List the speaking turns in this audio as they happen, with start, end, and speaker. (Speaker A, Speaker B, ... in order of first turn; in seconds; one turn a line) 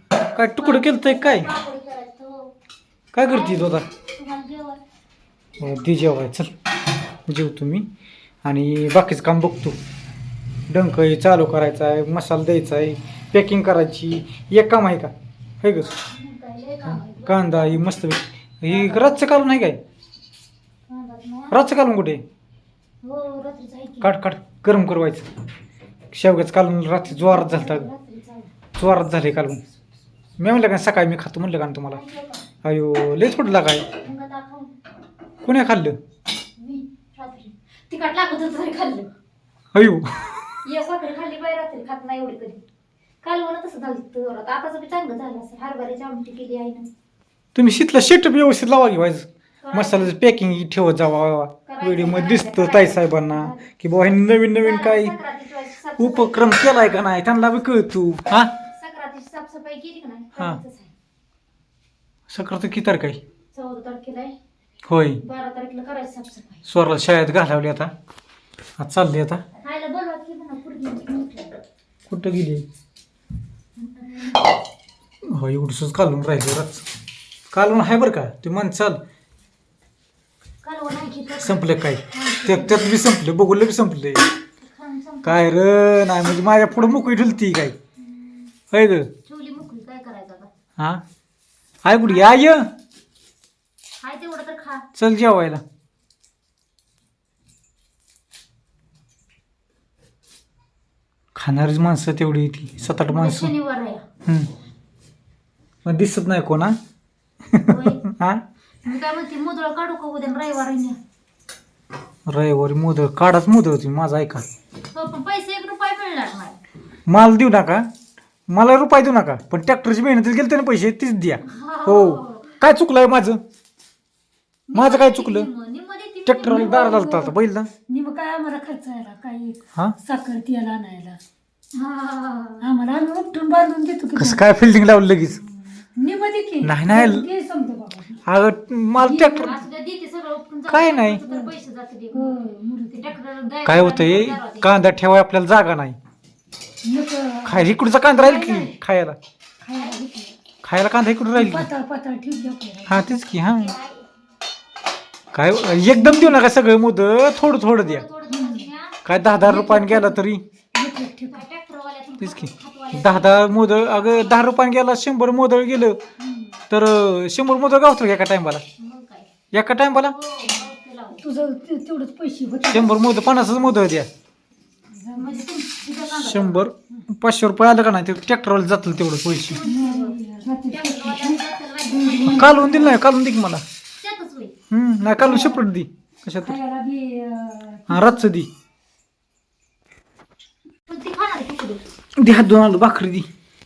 Speaker A: 0.3-1.5
Speaker B: 0.6-2.5
Speaker A: 3.1-3.9
Speaker B: 3.3-4.8
Speaker A: 5.6-6.5
Speaker A: 7.3-7.9
Speaker A: 8.4-9.8
Speaker A: 10.7-16.0
Speaker B: 16.0-17.9
Speaker A: 16.9-19.8
Speaker B: 18.7-19.2
Speaker B: 20.9-21.6
Speaker A: 21.5-22.2
Speaker B: 23.0-24.2
Speaker A: 24.0-25.3
Speaker A: 26.1-27.9
Speaker B: 27.1-28.5
Speaker A: 28.8-29.6
Speaker A: 30.4-32.0
Speaker B: 31.9-32.5
Speaker A: 32.6-33.9
Speaker B: 33.9-34.8
Speaker A: 35.4-36.0
Speaker B: 36.6-39.1
Speaker A: 39.7-40.4
Speaker B: 40.6-42.6
Speaker B: 43.2-46.9
Speaker A: 47.5-55.1
Speaker B: 49.6-50.1
Speaker B: 51.7-53.6
Speaker B: 54.5-57.1
Speaker A: 56.0-58.5
Speaker B: 58.6-60.9
Speaker A: 62.3-63.2
Speaker B: 63.5-64.3
Speaker A: 64.9-65.2
Speaker B: 65.2-66.7
Speaker A: 66.7-67.9
Speaker A: 68.8-69.4
Speaker B: 69.6-71.6
Speaker A: 72.1-72.7
Speaker B: 73.8-74.4
Speaker A: 75.2-76.9
Speaker A: 77.5-79.0
Speaker B: 80.6-83.0
Speaker A: 81.4-84.2
Speaker B: 84.6-85.5
Speaker A: 85.2-87.8
Speaker B: 88.0-88.5
Speaker A: 88.7-89.1
Speaker B: 89.3-90.5
Speaker A: 90.8-91.0
Speaker A: 91.8-92.7
Speaker B: 92.0-92.4
Speaker B: 94.0-94.9
Speaker A: 95.0-95.6
Speaker A: 101.3-103.5
Speaker B: 103.1-104.0
Speaker A: 105.8-106.8
Speaker A: 107.5-108.4
Speaker B: 107.7-108.0
Speaker B: 108.8-111.0
Speaker A: 112.3-114.5
Speaker B: 114.9-116.6
Speaker A: 117.1-117.9
Speaker A: 118.5-123.4
Speaker B: 121.5-122.6
Speaker B: 124.7-127.0
Speaker A: 124.7-125.5
Speaker A: 126.2-127.7
Speaker C: 126.4-127.4
Speaker C: 127.9-131.2
Speaker B: 131.8-132.7
Speaker C: 132.6-134.4
Speaker A: 134.2-135.4
Speaker C: 135.9-138.2
Speaker A: 136.6-137.3
Speaker A: 138.3-139.6
Speaker C: 139.0-139.6
Speaker B: 139.4-145.0
Speaker A: 140.7-141.2
Speaker C: 142.1-143.1
Speaker A: 143.6-146.0
Speaker C: 146.8-148.8
Speaker A: 147.4-149.2
Speaker C: 149.6-150.4
Speaker B: 149.8-150.0
Speaker A: 150.6-151.7
Speaker C: 151.3-153.2
Speaker A: 152.9-153.8
Speaker B: 153.5-154.1
Speaker A: 155.3-158.0
Speaker B: 157.7-159.1
Speaker C: 158.3-158.7
Speaker A: 159.0-160.4
Speaker C: 159.4-160.2
Speaker C: 160.7-161.4
Speaker B: 161.3-164.6
Speaker A: 162.2-166.0
Speaker C: 166.2-166.6
Speaker A: 166.7-168.6
Speaker B: 168.8-169.3
Speaker A: 169.5-170.2
Speaker B: 169.9-171.2
Speaker C: 171.2-173.1
Speaker A: 172.7-174.1
Speaker C: 174.9-175.5
Speaker B: 175.2-176.7
Speaker A: 176.1-179.6
Speaker B: 179.5-180.2
Speaker C: 179.6-183.0
Speaker B: 180.7-182.9
Speaker A: 182.2-183.6
Speaker B: 184.0-184.6
Speaker A: 184.7-186.6
Speaker C: 185.2-185.6
Speaker C: 186.4-188.3
Speaker A: 187.9-188.5
Speaker B: 190.9-191.8
Speaker A: 192.2-193.3